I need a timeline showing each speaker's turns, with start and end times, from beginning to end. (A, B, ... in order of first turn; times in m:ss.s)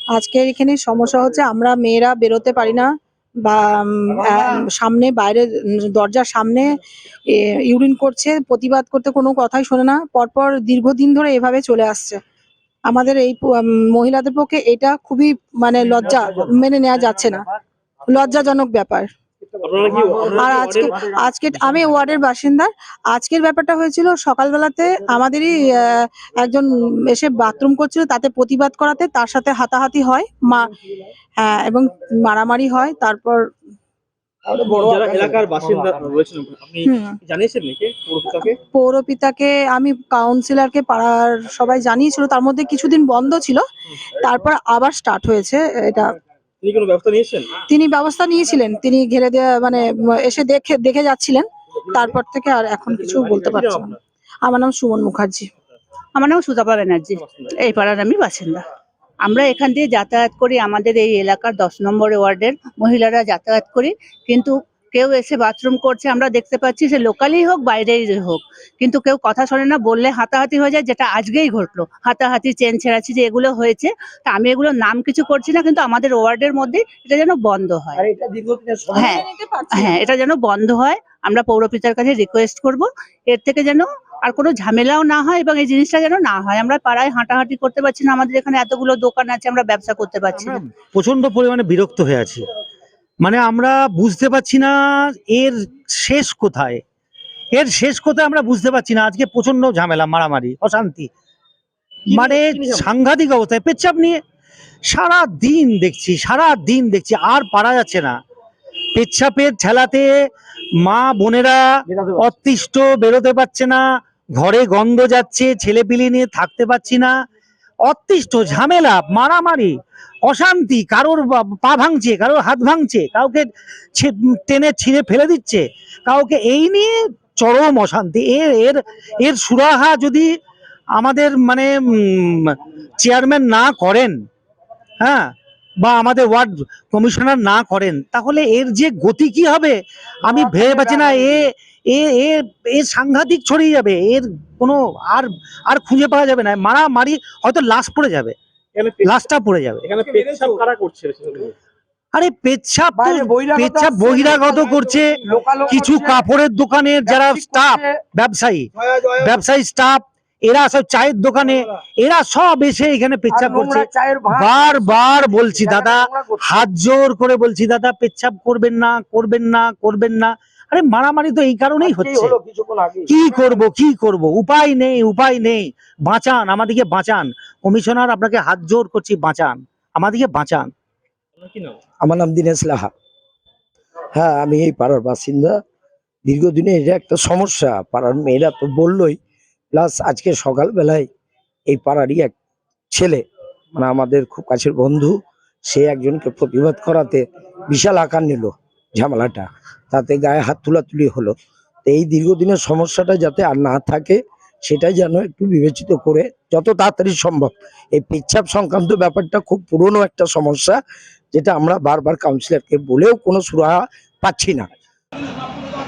0:00.1-0:02.9 A
0:03.4-0:06.7 A
0:07.3-0:12.2 A
0:12.9-0:17.4 A
0:18.1-0:19.1 A
0:19.6-0:21.0 B
0:20.2-0:30.7 A
0:31.4-0:33.4 A
0:34.7-0:38.6 B
0:36.8-0:37.1 A
0:38.5-0:43.6 A
0:44.2-0:46.1 A
0:46.6-0:47.6 B
0:47.7-0:55.5 A
0:52.9-0:54.0 B
0:56.2-0:58.6 C
0:57.2-0:57.5 B
0:59.2-1:18.0 C
1:18.0-1:19.1 D
1:18.9-1:20.0 A
1:18.9-1:30.6 C
1:30.4-1:32.4 E
1:33.2-1:36.8 E
1:37.5-1:41.1 E
1:42.1-1:44.2 E
1:42.1-1:42.9 B
1:44.9-1:48.1 E
1:48.9-1:50.1 E
1:50.8-1:51.6 E
1:51.9-1:52.2 D
1:52.2-1:53.8 E
1:54.4-1:57.1 E
1:57.8-2:10.3 E
2:11.0-2:14.1 E
2:15.0-2:28.3 E
2:28.7-2:29.2 B
2:29.0-2:29.8 E
2:29.8-2:31.5 B
2:32.1-2:52.4 E
2:33.2-2:34.0 D
2:43.3-2:46.6 D
2:51.8-2:53.3 D
2:53.1-3:00.7 E
3:01.4-3:01.8 B
3:02.0-3:02.9 D
3:04.1-3:05.6 D
3:06.2-3:09.2 D
3:09.7-3:11.1 D
3:11.7-3:12.3 D
3:12.9-3:13.2 D
3:13.8-3:30.8 D
3:31.3-3:34.7 D